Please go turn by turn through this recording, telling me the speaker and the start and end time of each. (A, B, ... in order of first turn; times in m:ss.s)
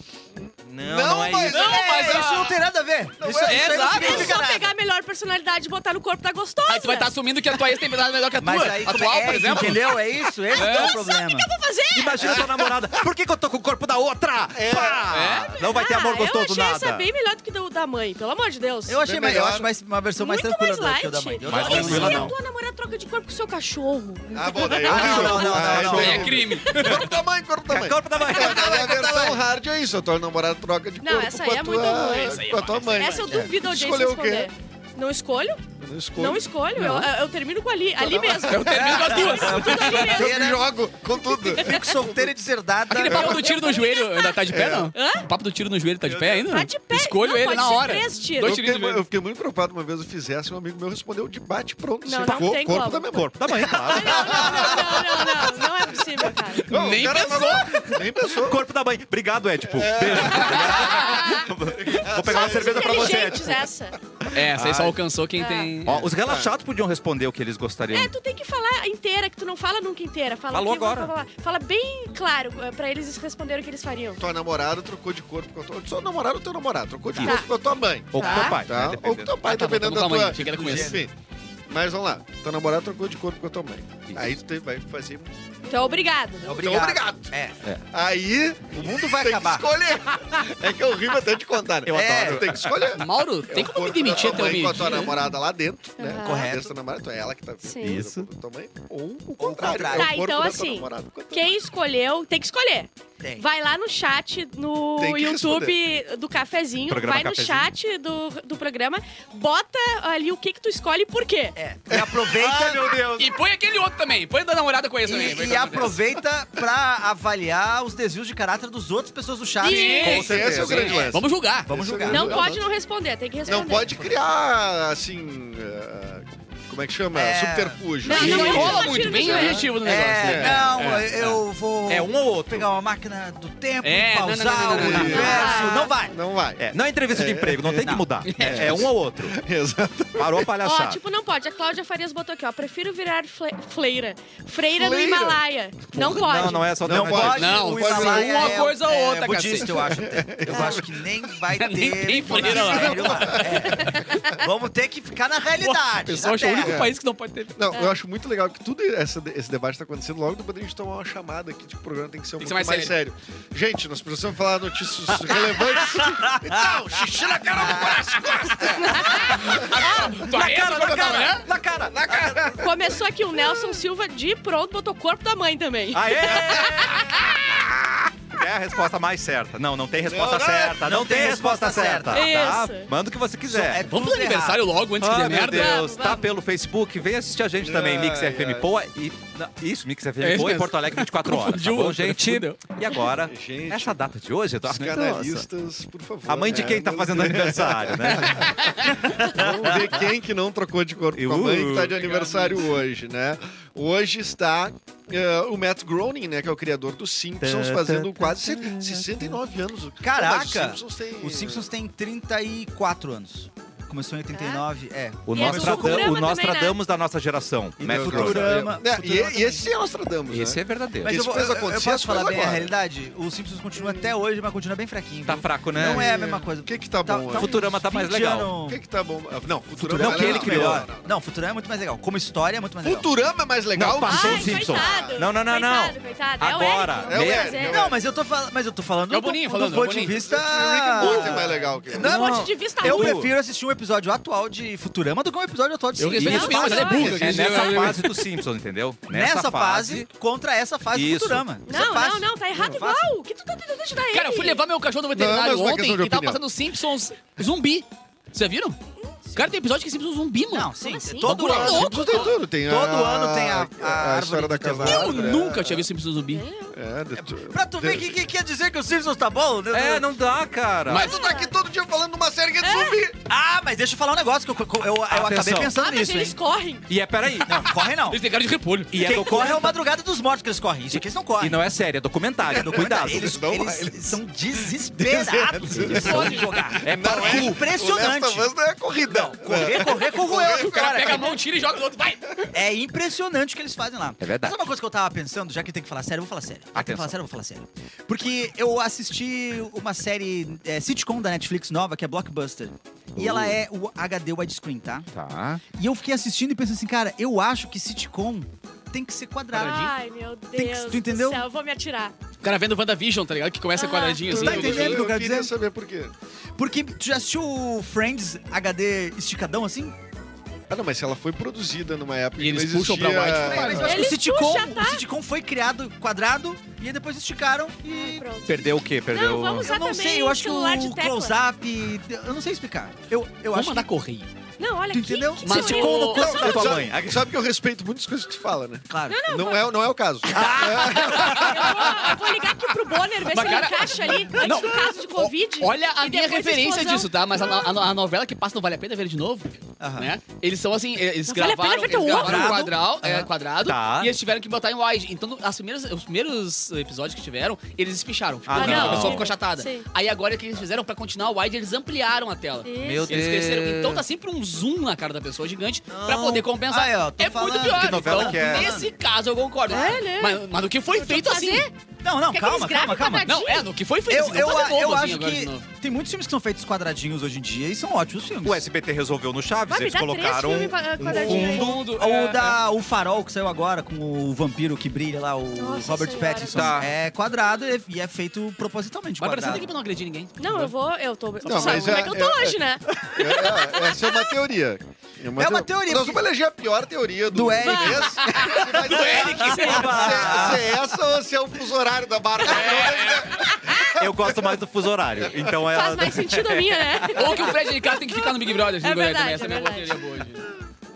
0:00.3-0:02.4 A
0:00.6-0:01.7 B
0:01.5-0:02.6 C
0:01.5-0:04.7 D
0:03.2-0:04.4 A
0:03.4-0:04.3 C
0:03.8-0:07.1 E
0:06.7-0:10.0 C
0:08.4-0:11.5 D
0:10.5-0:11.0 C
0:10.5-0:12.5 E
0:12.0-0:17.1 B
0:12.3-0:12.8 A
0:14.6-0:15.1 A
0:15.1-0:15.5 C
0:15.6-0:19.0 E
0:18.9-0:22.3 D
0:19.0-0:19.7 A
0:20.2-0:25.6 E
0:21.4-0:22.3 B
0:21.6-0:22.3 C
0:24.3-0:34.5 A
0:24.8-0:26.5 D
0:25.2-0:26.1 B
0:25.2-0:27.1 C
0:26.5-0:27.0 E
0:27.7-0:29.4 B
0:28.2-0:29.0 E
0:31.0-0:35.6 E
0:32.0-0:33.2 C
0:33.3-0:33.5 D
0:35.8-0:36.4 A
0:36.2-0:40.6 E
0:36.8-0:37.1 C
0:38.0-0:42.3 A
0:38.4-0:40.2 C
0:39.4-0:40.7 D
0:41.4-0:42.0 E
0:41.4-0:43.4 D
0:42.9-0:49.0 C
0:43.0-0:43.7 A
0:43.4-0:44.4 E
0:44.4-0:44.9 A
0:44.9-0:45.3 E
0:46.1-0:46.4 B
0:46.5-0:48.6 E
0:48.4-0:55.6 A
0:52.0-0:53.1 E
0:52.2-0:52.6 B
0:53.1-0:55.0 B
0:53.9-0:56.7 E
0:56.5-0:58.0 C
0:56.6-0:58.6 A
0:58.2-1:03.7 B
0:59.6-1:03.4 A
1:00.4-1:00.6 C
1:00.6-1:01.5 E
1:02.2-1:04.0 E
1:04.3-1:06.1 C
1:04.6-1:05.0 B
1:05.4-1:05.8 E
1:05.8-1:08.1 B
1:05.9-1:06.6 A
1:07.9-1:14.2 E
1:10.5-1:11.1 B
1:14.2-1:21.1 A
1:17.2-1:17.5 E
1:18.1-1:19.4 B
1:18.1-1:18.6 E
1:19.4-1:21.0 C
1:20.4-1:21.0 D
1:21.7-1:26.0 A
1:24.1-1:24.4 B
1:25.6-1:26.6 E
1:26.4-1:27.6 D
1:26.6-1:27.3 A
1:27.9-1:41.6 A
1:28.7-1:29.7 D
1:31.9-1:33.0 B
1:31.9-1:32.6 D
1:33.0-1:35.2 C
1:34.8-1:35.1 B
1:36.0-1:36.6 E
1:36.2-1:36.7 D
1:37.6-1:37.9 E
1:37.8-1:38.3 B
1:39.4-1:40.2 D
1:39.9-1:51.6 E
1:43.2-1:43.5 D
1:45.0-1:45.8 A
1:46.9-1:47.7 B
1:51.6-1:53.0 D
1:52.1-1:53.3 B
1:53.2-1:56.0 C
1:55.0-2:00.9 D
1:59.6-2:00.5 E
1:59.6-2:02.6 C
2:00.0-2:02.6 A
2:00.0-2:01.1 B
2:01.7-2:02.4 D
2:02.1-2:04.0 E
2:03.5-2:10.7 A
2:07.1-2:08.8 D
2:08.0-2:09.7 E
2:08.1-2:11.4 C
2:08.2-2:09.0 B
2:09.8-2:16.2 D
2:11.9-2:12.7 B
2:13.8-2:15.6 C
2:14.7-2:16.6 A
2:14.9-2:16.0 E
2:16.6-2:19.4 B
2:17.1-2:20.5 A
2:17.8-2:18.1 D
2:18.2-2:18.7 C
2:20.2-2:21.0 B
2:20.6-2:26.8 E
2:24.7-2:25.4 A
2:26.0-2:27.5 B
2:26.6-2:28.7 A
2:26.9-2:36.9 D
2:27.4-2:29.8 C
2:29.7-2:31.1 A
2:30.5-2:30.8 E
2:31.5-2:34.2 C
2:32.2-2:33.7 A
2:33.8-2:34.4 E
2:35.6-2:37.6 C
2:36.1-2:37.0 A
2:37.6-2:52.9 A
2:42.4-2:43.0 C
2:45.3-2:46.9 D
2:47.5-2:48.2 D
2:48.6-2:49.2 E
2:49.0-2:51.5 C
2:49.6-2:52.6 B
2:52.6-2:57.2 E
2:55.9-3:03.8 B
2:56.5-2:56.8 A
3:00.1-3:00.8 A
3:00.8-3:02.3 D
3:02.1-3:02.9 E
3:03.5-3:04.7 D
3:03.9-3:05.8 C
3:05.0-3:15.5 B
3:05.5-3:06.3 E
3:07.6-3:08.7 A
3:10.2-3:12.8 C
3:13.3-3:14.0 A
3:14.6-3:31.7 A
3:16.3-3:19.9 B
3:18.2-3:19.1 C
3:21.2-3:22.0 B
3:21.9-3:22.8 C
3:27.4-3:29.3 B
3:30.0-3:36.2 D
3:34.3-3:34.6 E
3:35.3-3:38.7 B
3:35.3-3:36.8 E
3:37.8-3:39.7 D
3:37.9-3:42.7 A
3:40.3-3:41.2 B
3:41.0-3:48.8 D
3:43.8-3:44.1 A
3:45.2-3:46.1 B
3:45.8-3:47.6 A
3:47.3-3:48.5 B
3:48.6-3:51.1 A
3:49.8-3:53.1 D
3:50.0-3:50.9 B
3:52.8-3:55.3 A
3:53.8-3:57.6 B
3:54.1-3:57.8 E
3:57.1-3:58.0 A
3:57.7-4:07.4 D
3:59.1-4:00.2 C
3:59.7-4:02.2 A
4:01.0-4:01.6 C
4:02.0-4:03.3 B
4:02.0-4:03.2 E
4:06.0-4:08.2 C
4:06.2-4:08.0 E
4:06.8-4:07.5 A
4:07.0-4:10.1 B
4:09.1-4:13.1 D
4:10.9-4:11.5 B
4:11.7-4:14.7 E
4:14.1-4:18.8 C
4:15.1-4:16.4 A
4:19.3-4:22.4 C
4:20.5-4:25.4 D
4:20.8-4:21.4 E
4:21.3-4:25.9 A
4:24.8-4:26.4 C
4:26.3-4:26.8 E
4:26.7-4:28.2 A
4:27.2-4:30.1 D
4:29.7-4:31.1 B
4:30.9-4:31.2 C
4:30.9-4:33.2 A
4:30.9-4:31.5 E
4:32.6-4:33.0 E
4:33.2-4:36.4 D
4:35.1-4:35.7 B
4:35.7-4:36.9 E
4:36.9-4:37.6 B
4:37.4-4:38.2 D
4:37.7-4:39.0 C
4:38.9-4:39.8 B
4:38.9-4:41.6 D
4:41.4-4:43.3 B
4:42.5-4:48.5 D
4:42.6-4:51.4 A
4:45.7-4:47.6 B
4:45.9-4:46.7 E
4:49.1-4:51.4 D
4:50.4-4:52.5 C
4:52.5-5:05.1 D
4:54.2-4:54.6 B
4:56.8-4:57.2 B
5:03.2-5:03.6 B
5:05.1-5:05.6 B
5:05.8-5:09.9 D
5:09.5-5:09.9 C
5:09.6-5:12.1 E
5:10.6-5:11.4 D
5:12.4-5:15.0 C
5:13.8-5:14.4 E
5:14.3-5:16.1 A
5:14.3-5:15.5 D
5:16.6-5:20.0 D
5:20.7-5:24.0 A
5:22.4-5:24.0 C
5:23.4-5:28.2 D
5:23.7-5:25.0 E
5:27.9-5:31.4 E
5:28.5-5:29.7 B
5:29.6-5:33.9 D
5:33.5-5:34.3 C
5:34.6-5:36.8 E
5:34.9-5:36.6 D
5:35.4-5:36.4 C
5:36.0-5:37.3 B
5:36.2-5:41.7 A
5:38.9-5:39.2 D
5:39.1-5:39.7 E
5:40.3-5:41.4 B
5:40.4-5:41.6 D
5:40.8-5:42.0 C
5:41.3-5:47.7 E
5:43.2-6:11.7 C
5:44.4-5:44.8 D
5:49.8-5:50.1 D
5:51.3-5:52.7 E
5:52.1-5:53.3 D
5:53.6-5:54.1 B
5:58.5-5:59.3 B
5:58.6-5:59.9 E
6:02.6-6:03.2 E
6:02.8-6:04.0 B
6:05.9-6:06.5 B
6:06.7-6:08.9 D
6:07.7-6:08.8 B
6:09.7-6:11.7 E
6:12.0-6:13.4 D
6:12.3-6:13.7 E
6:13.2-6:15.7 C
6:14.1-6:18.6 D
6:18.4-6:21.8 B
6:19.7-6:21.8 E
6:21.1-6:22.6 C
6:21.8-6:29.7 D
6:25.6-6:26.9 E
6:26.4-6:26.9 B
6:29.2-6:30.7 C
6:30.4-6:33.4 E
6:31.4-6:32.1 C
6:31.4-6:44.6 A
6:33.0-6:33.8 D
6:33.9-6:34.3 E
6:35.4-6:36.2 D
6:37.3-6:40.7 D
6:37.6-6:38.4 E
6:38.2-6:40.2 C
6:39.4-6:39.8 E
6:39.5-6:40.6 B
6:42.4-6:43.4 C
6:43.5-6:43.9 E
6:43.8-6:47.4 B
6:45.2-6:45.5 A
6:45.7-6:50.0 E
6:47.1-6:50.5 C